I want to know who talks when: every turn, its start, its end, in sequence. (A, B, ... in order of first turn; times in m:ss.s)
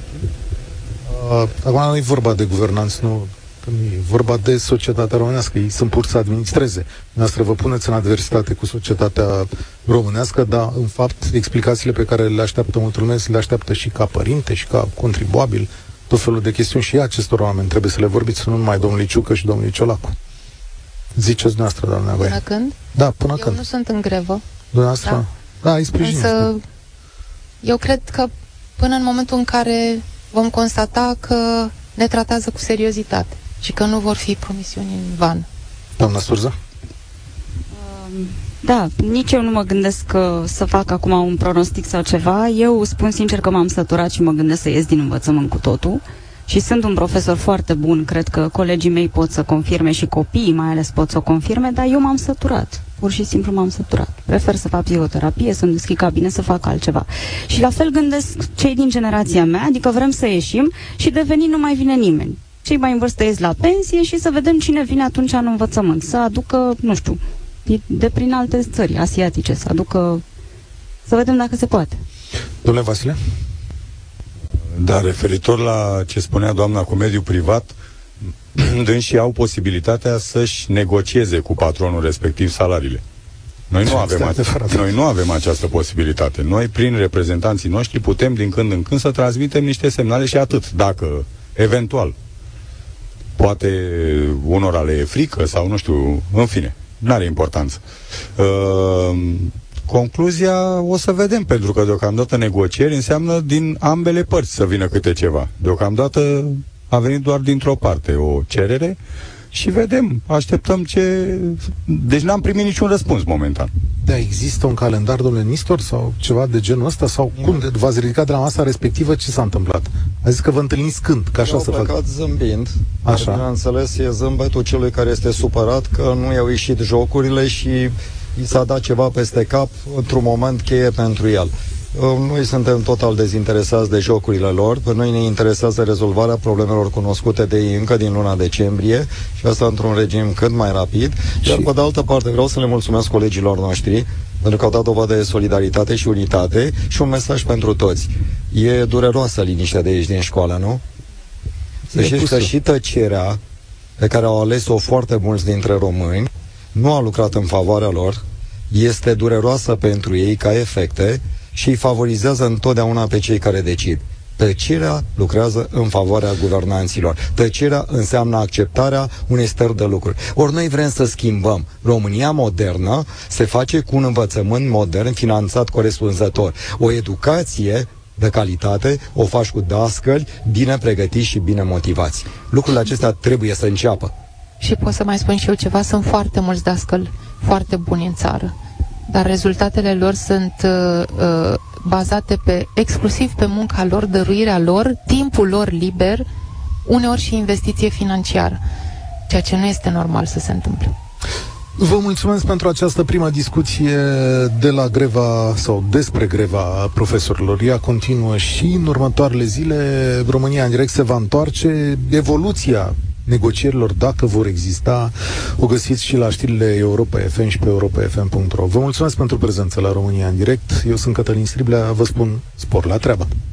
0:01.1-0:20.2 A
0:21.2-0:22.4 A
0:22.1-0:22.8 B
0:23.0-0:23.6 A
0:23.4-0:24.4 B
0:24.7-0:26.5 A
0:26.0-0:26.6 B
0:27.6-0:35.5 B
0:36.0-0:36.6 A
0:37.7-1:10.2 C
1:11.1-1:12.0 C
1:12.6-1:13.2 A
1:14.8-1:17.8 D
1:18.6-1:23.0 D
1:23.7-1:32.2 D
1:23.8-1:25.0 A
1:33.4-1:37.8 D
1:38.4-1:49.0 D
1:49.5-1:53.7 D
1:54.0-2:02.0 A
2:01.4-2:30.8 E
2:03.0-2:03.4 A
2:21.4-2:21.7 A
2:31.9-2:33.4 E
2:31.9-2:32.5 A
2:34.0-3:04.1 E
3:04.6-3:08.5 B
3:09.1-3:16.3 B
3:16.9-3:18.6 B
3:19.3-3:20.9 B
3:21.8-3:43.3 A